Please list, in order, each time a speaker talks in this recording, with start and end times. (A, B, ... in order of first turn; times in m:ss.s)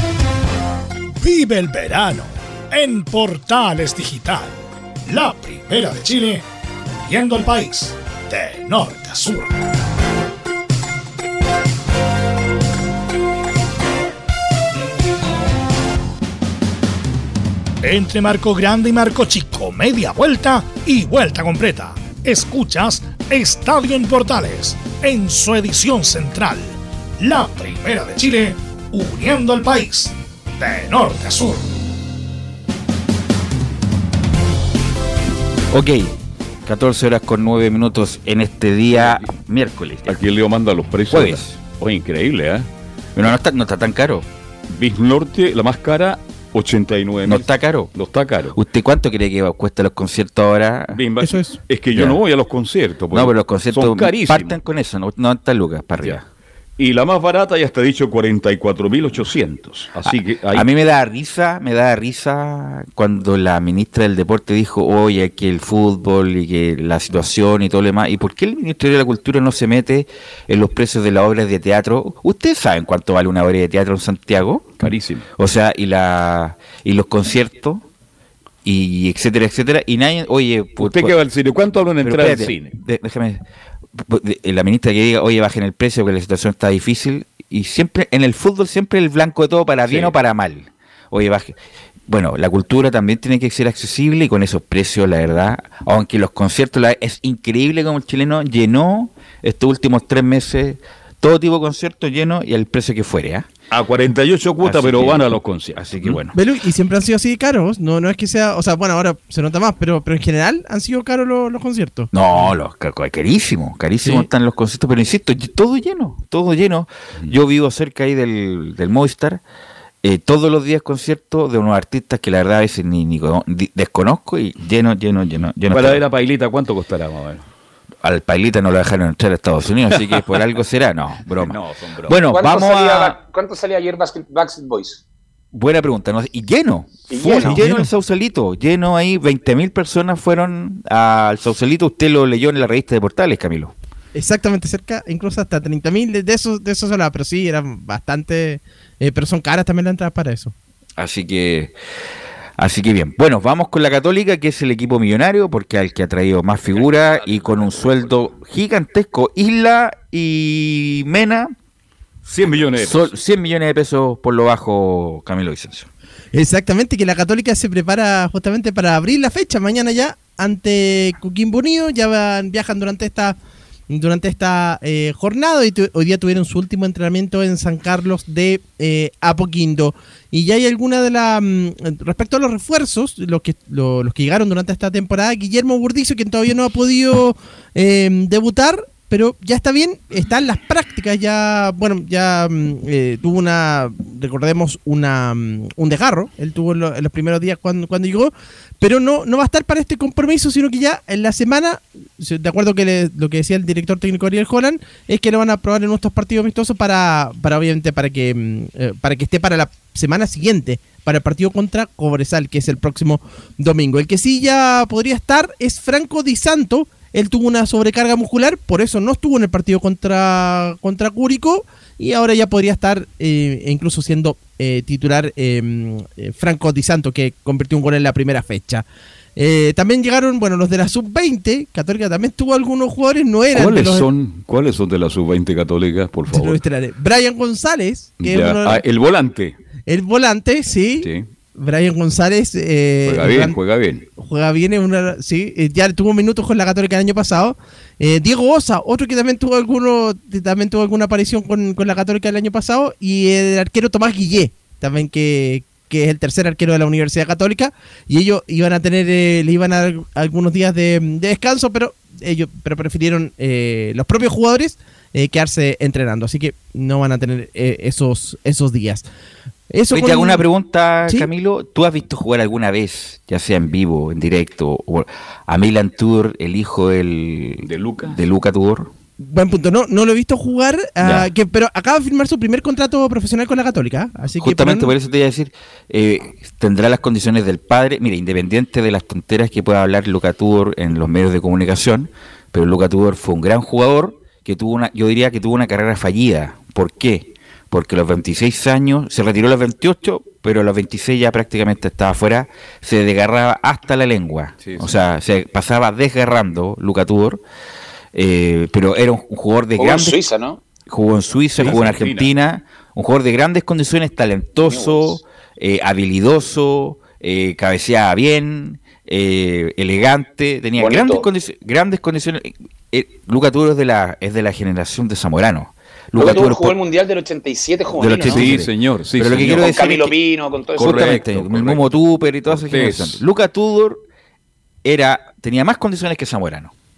0:01.2-0:06.4 A
0:07.0-0:09.5 A
0:17.8-0:31.7 A
0:35.7-0:36.1 B
0:36.6-0:40.2 B
0:38.9-0:39.2 C
0:40.1-0:42.7 C
0:41.1-0:41.6 B
0:43.1-0:44.3 B
0:44.7-0:48.6 C
0:47.2-0:47.9 B
0:48.5-0:51.0 B
0:50.9-0:54.6 C
0:51.2-0:51.5 D
0:51.9-0:52.2 B
0:53.1-0:56.2 B
0:56.8-1:00.6 C
1:00.1-1:14.7 B
1:14.8-1:15.2 C
1:15.4-1:17.8 B
1:18.6-1:21.2 B
1:20.8-1:22.7 C
1:22.0-1:23.4 B
1:24.0-1:31.5 B
1:29.8-1:30.1 C
1:32.1-1:43.5 B
1:43.7-1:46.2 C
1:44.6-1:46.4 B
1:46.3-1:52.1 D
1:52.1-1:59.4 B
2:00.0-2:06.0 B
2:05.7-2:07.4 C
2:08.0-2:13.2 B
2:11.4-2:12.2 C
2:12.3-2:15.0 E
2:15.5-2:23.7 B
2:17.1-2:17.5 E
2:17.4-2:17.9 D
2:24.1-2:30.5 D
2:31.0-2:31.7 B
2:32.6-2:41.5 B
2:37.2-2:37.9 C
2:42.2-2:43.1 C
2:42.8-2:45.9 B
2:46.3-2:53.4 D
2:53.9-3:48.8 D
3:49.4-3:54.1 D
3:53.5-3:56.6 C
3:56.3-3:58.8 D
3:58.2-3:59.6 C
3:59.9-4:03.6 D
4:03.0-4:04.0 C
4:04.2-4:29.0 D
4:29.7-4:30.4 D
4:29.9-4:38.9 B
4:37.6-4:38.2 C
4:39.2-4:44.9 D
4:41.0-4:41.3 B
4:44.4-5:07.4 B
5:04.6-5:05.0 C
5:08.1-5:10.2 B
5:09.8-5:10.6 E
5:10.9-5:26.8 B
5:11.6-5:12.3 C
5:14.6-5:15.2 E
5:20.8-5:21.2 E
5:26.2-5:28.5 E
5:27.9-5:30.2 B
5:28.2-5:29.8 C
5:29.5-5:31.0 E
5:30.8-5:34.0 B
5:30.8-5:31.9 C
5:32.5-5:33.2 C
5:34.8-5:36.7 B